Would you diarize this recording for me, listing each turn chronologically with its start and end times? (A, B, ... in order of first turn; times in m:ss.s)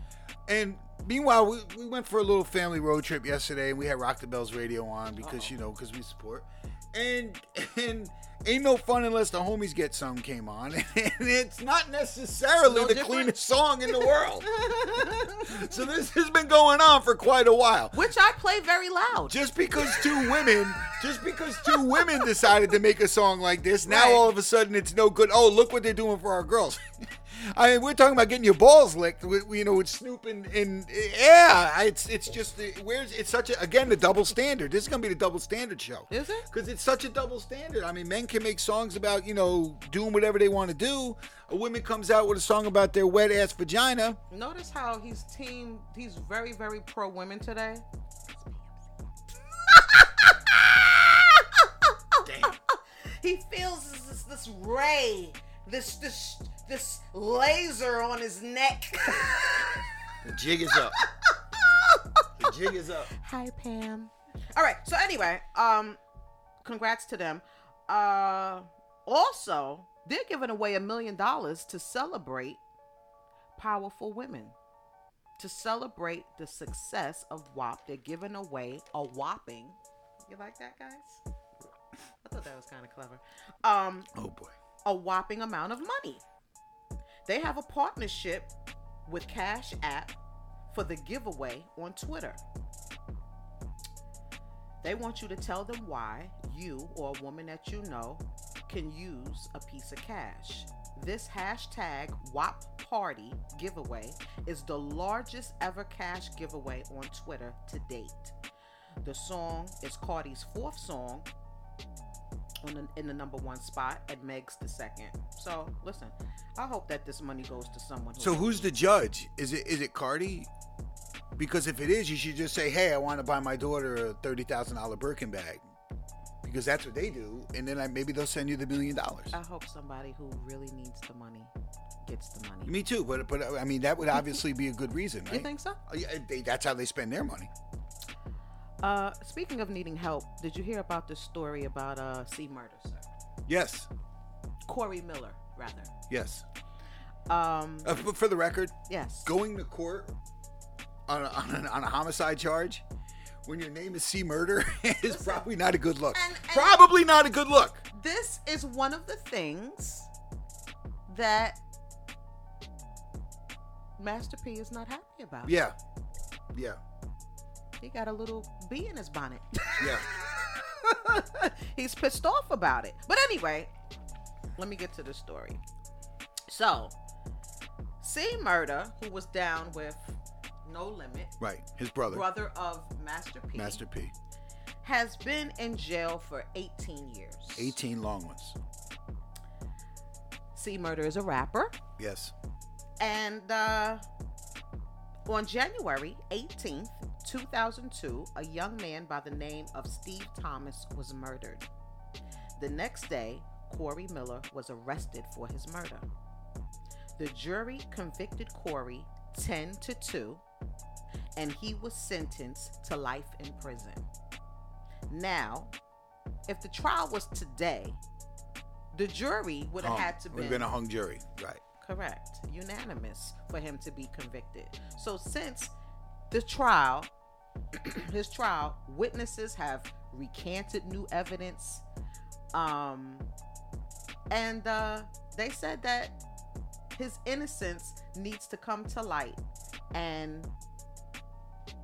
0:00.5-0:18.0 A
0:05.2-0:05.5 B
0:12.6-0:15.7 B
0:17.9-0:20.3 B
0:19.3-0:44.2 A
0:21.7-0:22.2 B
0:23.8-0:24.3 B
0:36.1-0:36.5 B
0:44.3-0:47.8 B
0:49.6-0:59.8 B
0:52.2-0:52.6 A
1:00.2-1:01.0 A
1:00.7-1:06.0 B
1:02.4-1:03.1 A
1:06.6-1:12.6 B
1:13.6-1:14.6 B
1:15.4-1:21.2 B
1:22.2-1:24.1 B
1:24.1-1:24.5 A
1:24.8-1:26.2 B
1:27.2-1:28.5 B
1:29.0-1:30.1 B
1:30.7-1:32.4 B
1:34.8-1:48.3 B
1:49.0-1:51.3 B
1:52.6-1:58.7 B
1:58.2-2:00.5 A
2:01.4-2:05.6 A
2:06.4-2:09.3 A
2:09.3-2:11.5 B
2:12.0-2:12.7 B
2:12.6-2:17.5 A
2:15.3-2:15.8 B
2:18.8-2:23.0 B
2:23.5-2:23.9 A
2:24.7-2:25.9 B
2:26.1-2:26.4 A
2:27.3-2:27.9 B
2:27.8-2:30.1 A
2:28.9-2:29.3 B
2:31.1-2:32.8 A
2:33.4-2:37.8 A
2:35.0-2:35.4 B
2:36.1-2:36.8 B
2:37.9-2:40.1 B
2:41.1-2:41.6 B
2:44.0-2:45.6 B
2:45.4-2:45.8 A
2:46.5-2:46.8 A
2:47.8-2:53.7 B
2:49.8-2:50.1 A
2:54.6-2:55.6 B
2:56.5-2:56.9 B
2:58.0-3:01.3 B
3:01.4-3:02.2 A
3:02.1-3:03.8 B
3:03.5-3:04.1 A
3:04.8-3:07.8 B
3:07.5-3:08.6 A
3:10.5-3:11.7 B
3:12.0-3:12.3 A
3:13.0-3:14.0 B
3:15.3-3:21.6 B
3:22.6-3:26.0 B
3:27.2-3:30.4 B
3:31.4-3:34.0 B
3:35.1-3:35.7 B
3:36.5-3:38.0 B
3:38.9-3:40.7 B
3:39.8-3:41.6 A
3:41.8-3:45.7 B
3:46.3-3:47.1 B
3:47.7-3:51.8 B
3:52.5-3:53.3 B
3:54.3-3:56.1 B
3:56.9-3:59.4 B
3:59.9-4:00.5 B